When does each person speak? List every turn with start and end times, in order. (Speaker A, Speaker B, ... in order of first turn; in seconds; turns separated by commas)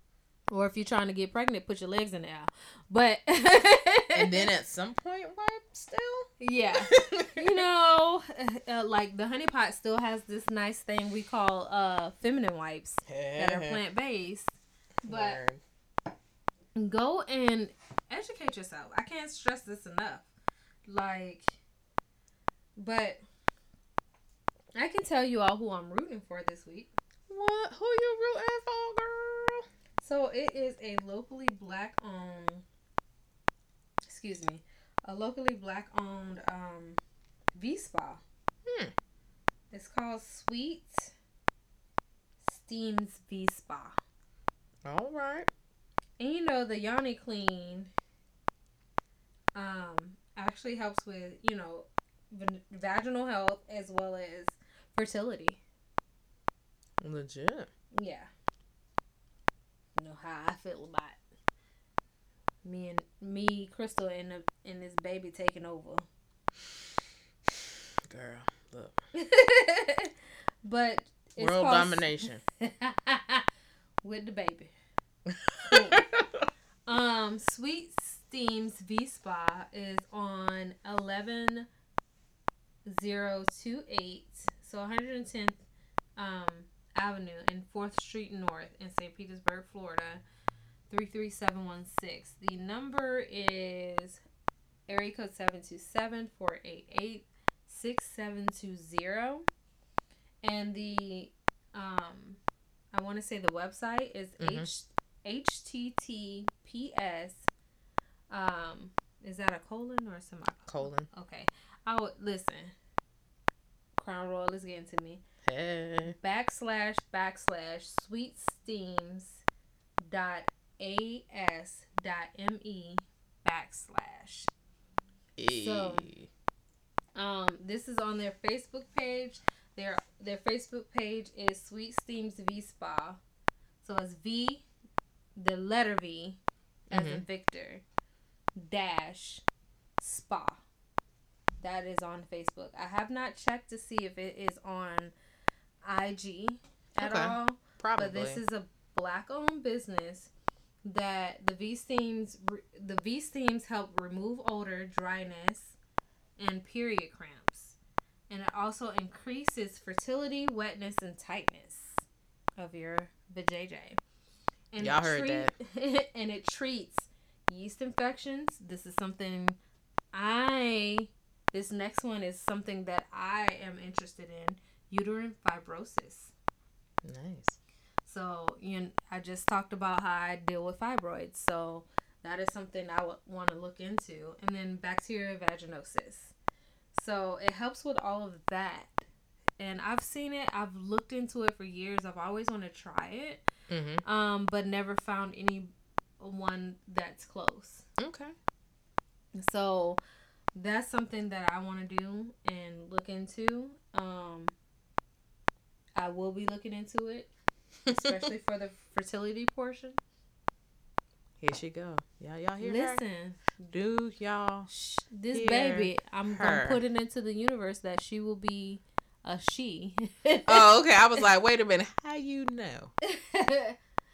Speaker A: 0.5-4.5, Speaker B: 4.1-6.3, Speaker A: 6.4-15.4, Speaker B: 6.9-7.5, Speaker B: 13.1-13.8, Speaker B: 15.0-15.6, Speaker A: 16.8-20.3, Speaker A: 20.9-21.6, Speaker A: 22.8-23.2, Speaker A: 24.8-26.9, Speaker B: 27.3-29.7, Speaker A: 30.0-32.6, Speaker A: 34.1-37.0, Speaker A: 37.5-38.2, Speaker B: 38.7-38.9, Speaker A: 39.7-41.1, Speaker A: 42.4-44.0, Speaker B: 44.9-45.5, Speaker A: 46.2-47.9, Speaker A: 49.5-55.6, Speaker B: 57.0-57.7, Speaker A: 57.9-58.3, Speaker A: 60.0-61.2, Speaker A: 62.6-66.1, Speaker B: 68.1-69.0, Speaker A: 69.2-73.5, Speaker B: 71.4-72.4, Speaker A: 74.0-74.7, Speaker B: 75.3-76.4, Speaker A: 75.7-76.0, Speaker A: 76.9-81.7, Speaker A: 82.9-85.6, Speaker A: 86.2-90.2, Speaker A: 90.9-94.2, Speaker A: 94.9-99.5, Speaker A: 100.4-102.4, Speaker A: 102.9-107.5, Speaker B: 104.4-104.7, Speaker A: 108.3-112.7, Speaker B: 110.7-111.1, Speaker A: 114.0-115.2, Speaker B: 115.5-116.2, Speaker A: 116.0-119.4, Speaker A: 120.0-124.5, Speaker B: 125.4-126.3, Speaker A: 125.5-126.1, Speaker A: 127.2-133.2, Speaker A: 133.8-134.7, Speaker A: 135.4-137.8, Speaker B: 136.9-137.2, Speaker A: 138.6-139.4, Speaker A: 140.0-140.6, Speaker A: 141.6-145.1, Speaker A: 145.8-150.3, Speaker B: 147.0-148.4, Speaker A: 150.8-155.8, Speaker A: 156.4-157.8, Speaker A: 158.3-162.1, Speaker A: 162.6-164.0, Speaker A: 164.7-169.6, Speaker B: 164.8-165.5, Speaker A: 170.1-176.3, Speaker B: 177.0-177.6, Speaker A: 178.1-186.3, Speaker A: 186.9-189.1, Speaker A: 189.6-193.5, Speaker B: 193.7-194.0, Speaker A: 194.0-197.9, Speaker B: 198.0-198.3, Speaker A: 199.3-200.0, Speaker A: 200.5-204.5, Speaker A: 206.0-207.3, Speaker A: 207.9-210.0, Speaker B: 207.9-208.2, Speaker B: 211.4-213.0, Speaker A: 212.6-213.4, Speaker B: 213.6-214.7, Speaker A: 214.7-220.7, Speaker B: 215.3-216.8, Speaker B: 220.5-222.9, Speaker A: 223.0-223.8